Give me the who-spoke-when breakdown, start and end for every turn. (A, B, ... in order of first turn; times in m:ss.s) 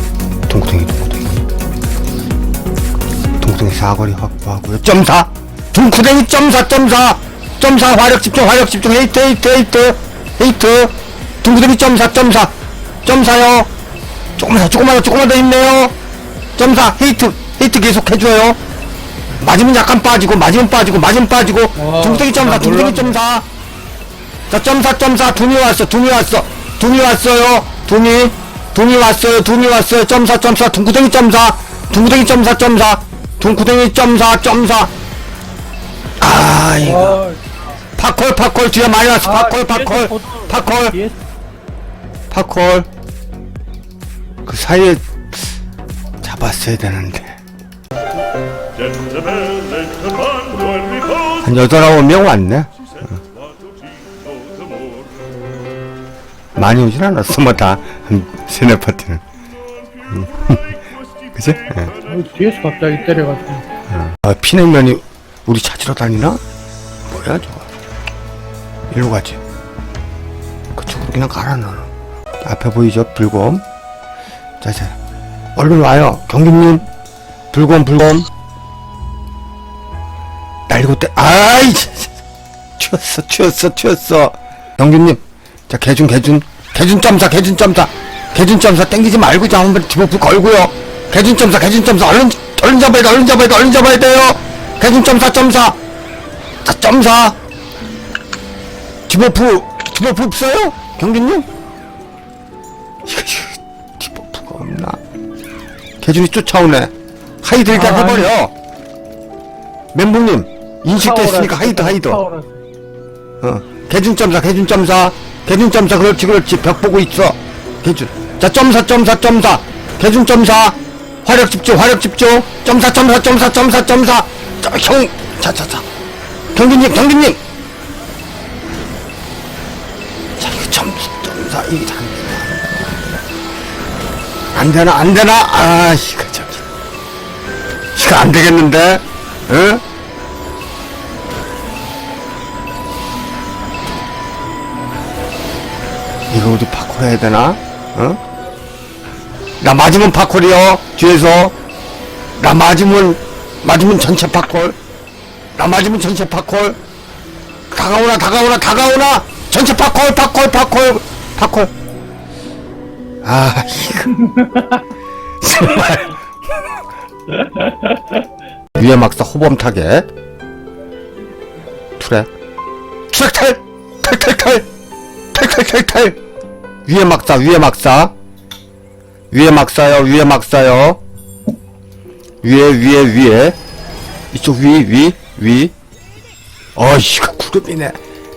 0:00.5-0:01.5 A
0:03.4-0:12.5 A
0:13.0-0:13.7 A
0:14.4-0:15.9 A
0:16.6-0:18.6 A
0:19.4-0:23.5 A
0:21.8-0:23.2 B
0:24.5-0:34.9 A
0:36.2-0:37.2 A
0:36.8-0:37.7 B
0:38.0-0:41.0 A
0:39.2-0:41.2 B
0:42.3-0:42.9 A
0:44.4-0:45.5 A
0:46.2-0:47.4 A
0:51.4-0:53.2 A
0:56.6-0:59.2 A
1:00.1-1:00.8 A
1:01.4-1:01.9 A
1:02.1-1:03.6 B
1:03.9-1:06.4 A
1:07.1-1:07.7 A
1:08.9-1:09.4 A
1:10.8-1:11.9 A
1:12.4-1:13.6 A
1:14.6-1:15.0 A
1:15.6-1:16.9 A
1:17.5-1:18.3 A
1:20.7-1:22.1 A
1:22.8-1:35.8 A
1:36.6-1:37.4 A
1:39.1-1:41.5 A
1:43.1-1:45.0 A
1:46.0-1:48.5 A
1:47.7-1:48.3 B
1:49.9-1:52.2 A
1:51.0-1:52.6 B
1:53.4-2:05.8 A
2:06.5-2:07.4 A
2:10.4-2:13.2 A
2:14.5-2:16.7 A
2:17.9-2:19.8 A
2:26.3-2:28.2 A
2:29.6-2:31.6 A
2:32.4-2:34.8 A
2:35.6-2:36.8 A
2:37.7-2:41.7 A
2:43.2-2:44.2 A
2:45.4-2:46.2 A
2:47.3-2:48.1 B
2:48.8-2:50.1 A
2:52.0-2:52.3 A
2:53.1-2:54.7 A
2:55.3-2:56.2 A
2:56.9-2:58.1 A
2:59.3-3:01.0 A
3:02.4-3:03.6 A
3:04.3-3:05.7 A
3:06.8-3:08.0 A